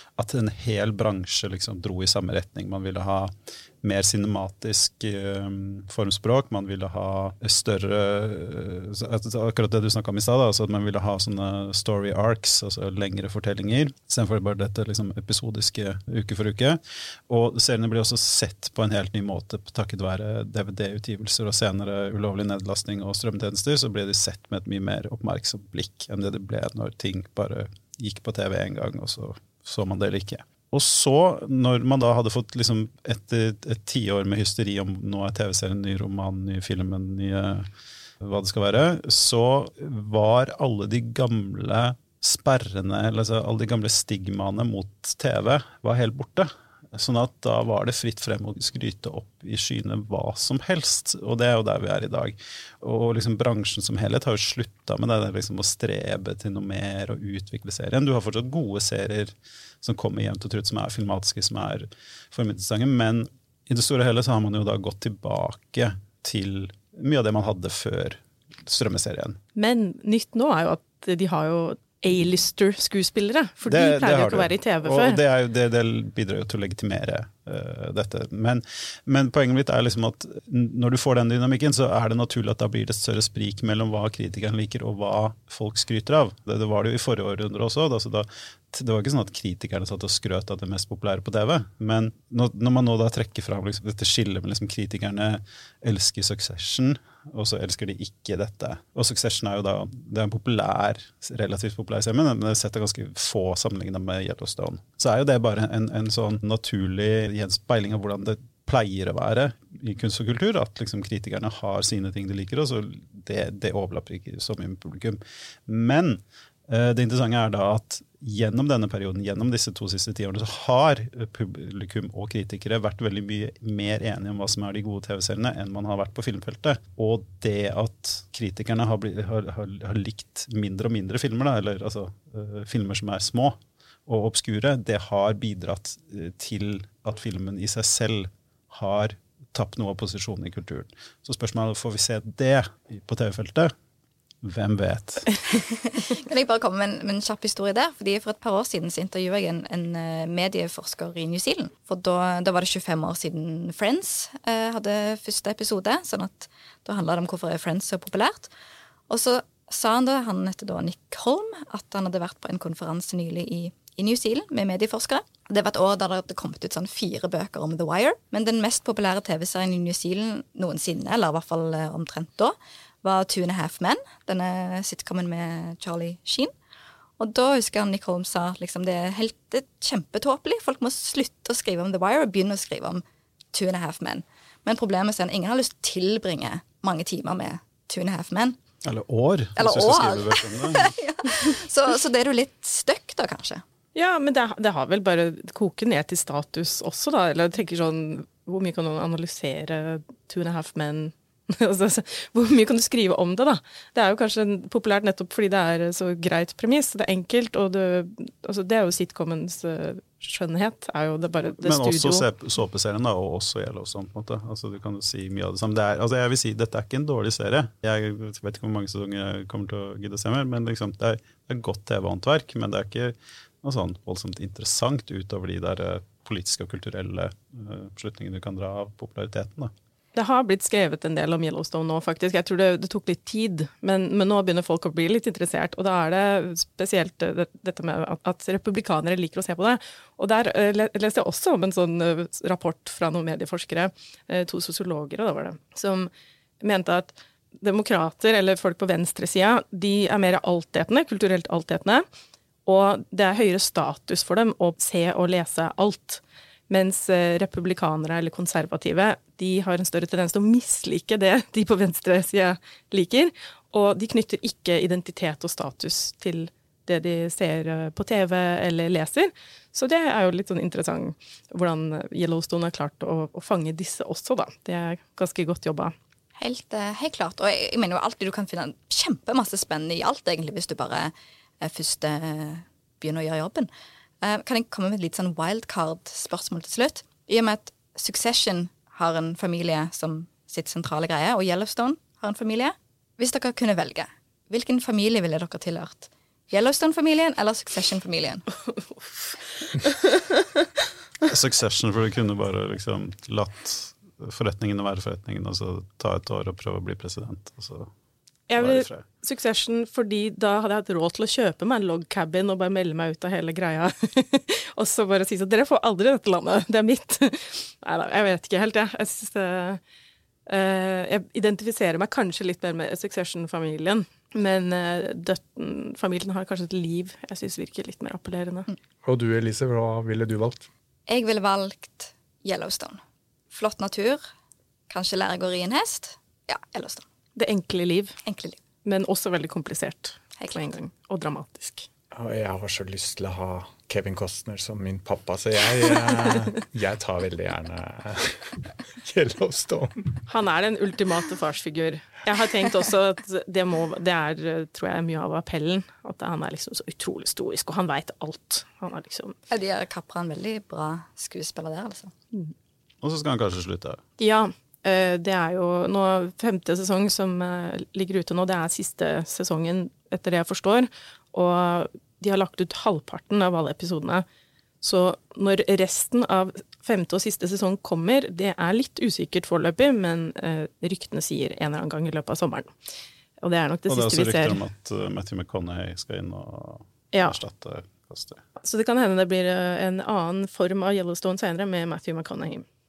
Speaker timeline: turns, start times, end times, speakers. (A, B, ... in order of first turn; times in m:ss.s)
0:00.2-0:37.7 A
0:38.2-1:09.4 A
1:09.6-1:15.2 B
1:13.7-2:23.7 A
2:24.4-2:25.3 A
2:25.7-2:38.5 C
2:39.1-2:56.5 C
2:57.2-3:08.6 C
3:08.8-3:10.9 A
3:09.6-3:13.6 C
3:14.0-3:32.3 B
3:31.6-3:49.7 A
3:50.2-4:06.1 B
4:06.6-4:12.0 B
4:12.7-4:35.9 B
4:36.4-4:43.7 C
4:44.2-4:58.4 C
4:59.8-5:00.2 B
5:01.3-5:07.9 A
5:08.5-5:19.8 B
5:08.6-5:09.0 A
5:20.5-5:28.7 B
5:29.0-5:30.7 D
5:31.1-5:33.0 C
5:33.5-5:34.2 C
5:34.9-5:37.0 C
5:37.4-5:38.2 B
5:38.2-5:38.6 C
5:38.8-5:41.9 B
5:40.4-5:40.7 C
5:42.1-5:50.2 D
5:50.3-5:59.4 B
5:59.5-6:02.1 C
6:03.0-6:04.0 A
6:04.2-6:14.2 B
6:14.8-6:22.7 B
6:23.4-6:24.6 B
6:23.9-6:28.4 A
6:28.6-6:32.6 B